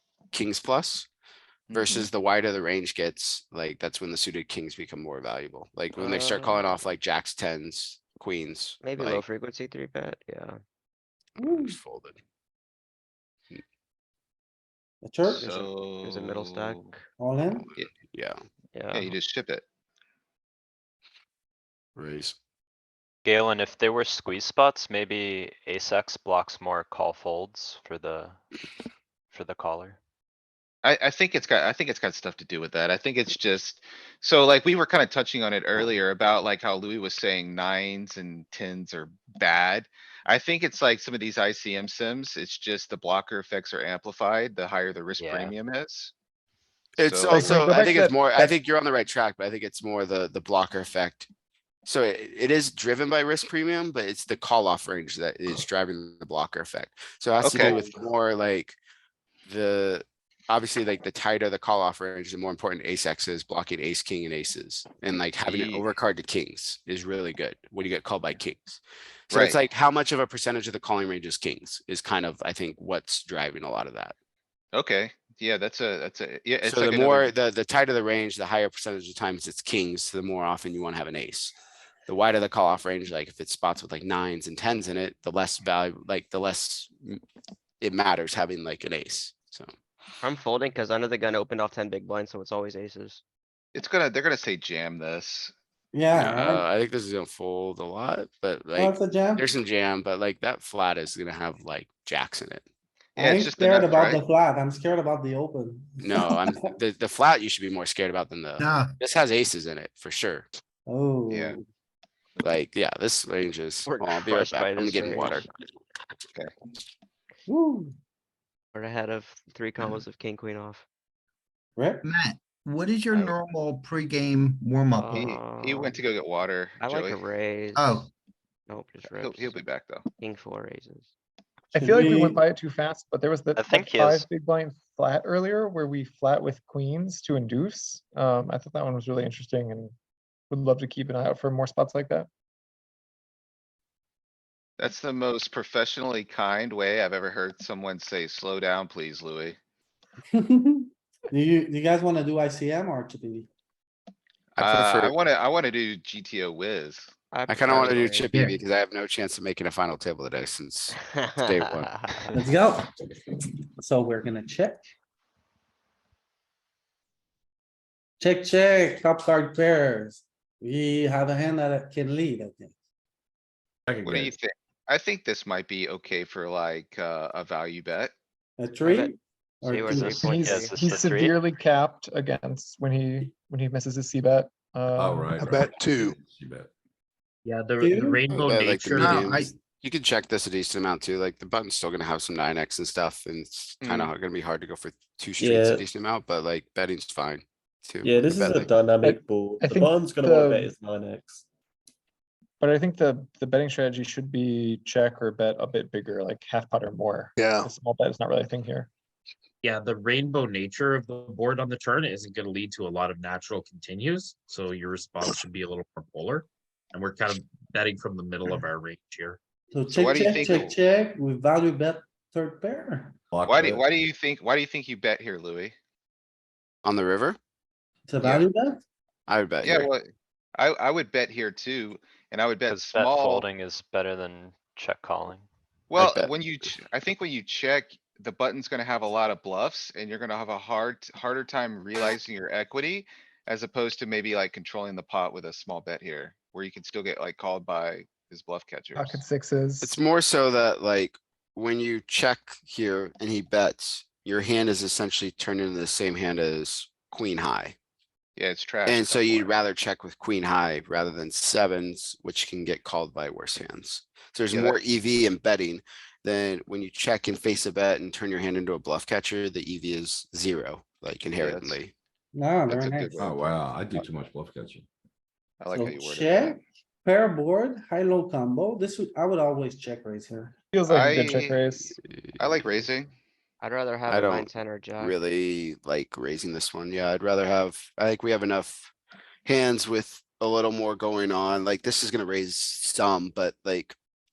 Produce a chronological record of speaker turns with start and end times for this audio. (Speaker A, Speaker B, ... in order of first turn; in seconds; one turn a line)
Speaker A: 0.3-1.1
Speaker B: 1.7-2.1
Speaker A: 1.7-9.2
Speaker C: 6.0-6.7
Speaker C: 8.8-10.6
Speaker A: 11.4-12.2
Speaker D: 11.4-11.8
Speaker D: 15.0-15.4
Speaker B: 15.2-16.9
Speaker C: 15.4-17.0
Speaker D: 17.2-17.7
Speaker A: 17.5-18.4
Speaker C: 18.7-19.1
Speaker B: 18.9-19.6
Speaker A: 21.9-22.4
Speaker E: 23.2-28.4
Speaker E: 29.3-30.0
Speaker B: 30.8-46.1
Speaker E: 45.2-45.5
Speaker A: 47.0-51.3
Speaker B: 47.0-47.6
Speaker F: 47.3-48.6
Speaker A: 51.8-58.8
Speaker B: 57.4-57.8
Speaker A: 59.5-74.1
Speaker B: 65.4-65.8
Speaker B: 69.3-69.6
Speaker B: 74.7-77.3
Speaker A: 76.6-81.5
Speaker A: 82.1-87.2
Speaker A: 87.8-89.7
Speaker C: 90.2-93.2
Speaker B: 93.7-95.5
Speaker D: 95.9-96.6
Speaker A: 96.1-102.6
Speaker D: 98.8-99.5
Speaker B: 103.2-104.2
Speaker D: 103.2-106.6
Speaker A: 106.0-110.5
Speaker G: 108.6-108.9
Speaker D: 110.9-111.6
Speaker B: 111.3-111.6
Speaker A: 112.4-115.5
Speaker C: 113.8-115.5
Speaker D: 117.5-117.9
Speaker C: 118.7-120.8
Speaker D: 121.8-122.0
Speaker G: 122.0-125.2
Speaker B: 123.1-123.4
Speaker C: 125.0-126.0
Speaker B: 125.1-127.3
Speaker C: 126.8-128.0
Speaker G: 127.7-128.1
Speaker C: 128.7-129.6
Speaker B: 129.0-130.1
Speaker C: 130.2-131.1
Speaker F: 131.7-139.9
Speaker D: 131.8-132.4
Speaker E: 133.5-134.3
Speaker F: 140.5-142.3
Speaker B: 144.8-149.6
Speaker D: 150.3-153.5
Speaker A: 154.6-155.1
Speaker B: 154.6-157.1
Speaker C: 157.3-158.3
Speaker A: 157.5-162.0
Speaker C: 161.8-162.3
Speaker D: 162.3-162.9
Speaker D: 163.8-164.8
Speaker D: 168.2-172.7
Speaker H: 173.9-174.3
Speaker B: 174.0-178.1
Speaker D: 178.6-180.3
Speaker C: 178.8-179.1
Speaker C: 179.6-180.9
Speaker E: 179.9-181.3
Speaker F: 180.1-185.7
Speaker H: 184.9-186.7
Speaker G: 185.6-186.2
Speaker I: 187.4-189.2
Speaker D: 187.8-188.2
Speaker A: 188.3-198.7
Speaker G: 188.9-189.6
Speaker B: 193.8-194.1
Speaker J: 195.4-195.9
Speaker J: 198.0-201.4
Speaker F: 199.0-200.7
Speaker F: 202.6-208.9
Speaker G: 207.4-207.7
Speaker I: 209.6-219.4
Speaker D: 219.7-223.1
Speaker B: 219.9-220.7
Speaker H: 223.3-223.9
Speaker B: 223.4-225.7
Speaker A: 226.8-227.4
Speaker D: 228.1-228.8
Speaker A: 229.3-229.9
Speaker B: 229.6-230.0
Speaker B: 230.6-233.5
Speaker E: 232.7-235.4
Speaker B: 235.9-249.2
Speaker A: 235.9-236.3
Speaker F: 248.9-250.0
Speaker A: 249.8-257.8
Speaker B: 258.4-259.5
Speaker A: 258.8-271.9
Speaker B: 264.5-264.8
Speaker B: 271.3-271.8
Speaker D: 272.3-273.3
Speaker B: 272.7-273.4
Speaker H: 273.2-274.9
Speaker B: 275.6-276.6
Speaker D: 275.7-280.5
Speaker F: 280.7-282.0
Speaker B: 280.9-281.7
Speaker A: 282.3-282.7
Speaker B: 282.4-283.1
Speaker C: 283.6-285.1
Speaker A: 284.1-288.9
Speaker A: 289.4-293.9